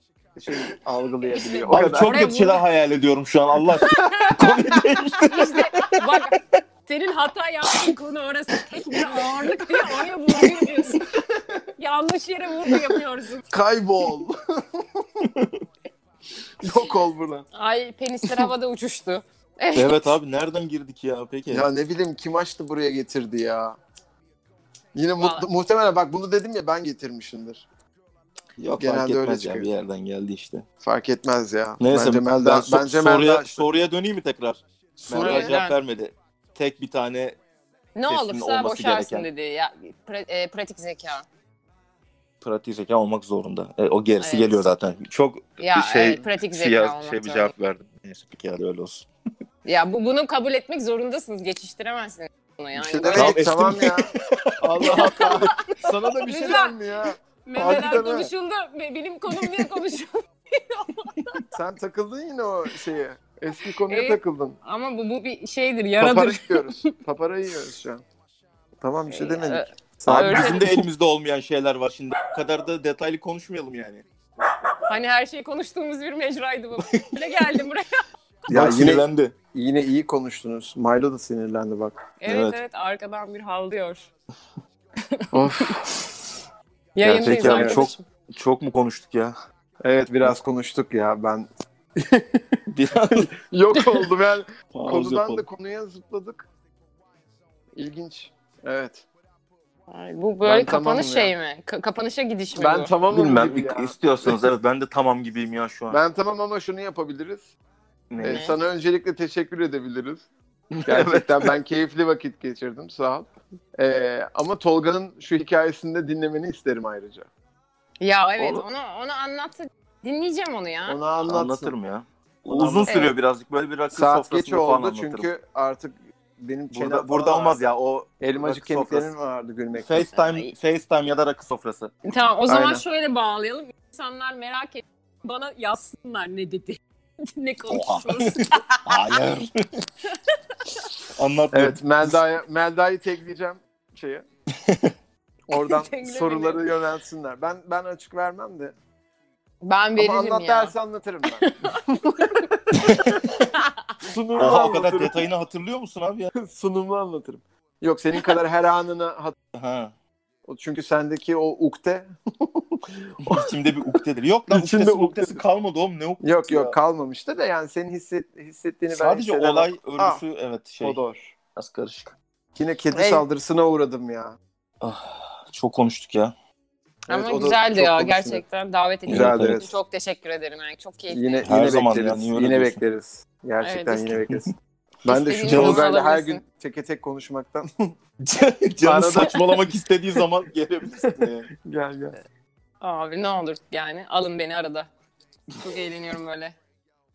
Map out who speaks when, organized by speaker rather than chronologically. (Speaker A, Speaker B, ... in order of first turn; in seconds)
Speaker A: 0.3-2.2, 4.3-4.8, 12.7-15.3, 16.6-17.5, 21.5-23.8, 24.9-27.7, 28.8-29.7, 30.8-33.7, 35.1-35.6, 52.8-54.1, 54.8-58.3, 61.5-64.6, 66.0-68.0, 68.8-70.7, 78.5-82.0, 85.3-85.9, 87.4-87.8, 89.8-92.6, 93.1-96.5, 97.8-99.1, 100.4-101.3, 102.5-104.4, 105.9-107.5, 108.2-110.3, 110.8-113.3, 113.8-117.3, 120.9-121.7, 122.5-123.2, 123.9-130.1, 132.5-132.8, 141.5-144.2, 145.5-148.8, 149.9-153.2, 154.0-155.2, 156.3-159.3, 160.5-164.0, 164.5-165.4, 166.2-170.2, 170.8-171.3, 172.6-174.4, 177.1-178.4, 179.1-179.8, 181.1-184.5, 185.0-187.9, 188.8-189.4, 191.0-192.2
Speaker B: 1.2-2.6, 3.8-11.1, 11.8-13.4, 17.5-20.1, 25.2-25.5, 35.1-35.8, 38.0-41.2, 44.2-44.7, 45.6-47.5, 49.6-53.4, 54.8-56.8, 57.5-61.4, 63.9-66.9, 69.1-70.8, 74.9-78.0, 82.2-84.1, 85.1-85.8, 87.0-88.0, 99.9-102.9, 108.2-108.5, 118.0-121.0, 122.9-123.1, 130.1-130.5, 132.1-139.2, 145.5-146.7, 149.6-150.7, 151.2-152.5, 153.5-154.0, 172.9-173.2, 177.1-181.4, 183.6-184.2, 185.1-186.4, 192.8-194.9, 195.5-196.6
Speaker C: 1.7-6.4, 15.2-15.6, 19.8-21.7, 28.6-30.7, 31.8-37.4, 38.1-39.3, 42.4-49.1, 53.1-54.0, 54.6-56.7, 61.2-61.5, 70.1-74.1, 78.5-79.3, 82.3-82.6, 87.0-89.3, 92.7-94.0, 94.7-95.5, 103.1-106.0, 108.1-108.5, 110.7-111.5, 121.3-125.3, 126.7-129.1, 129.7-131.9, 137.7-139.8, 141.1-142.2, 144.5-144.9, 152.7-153.5, 154.4-156.3, 159.5-159.9, 163.2-166.8, 168.9-171.0, 171.6-172.2, 174.8-176.3, 179.1-179.6, 181.4-182.8, 185.4-185.8, 188.2-191.5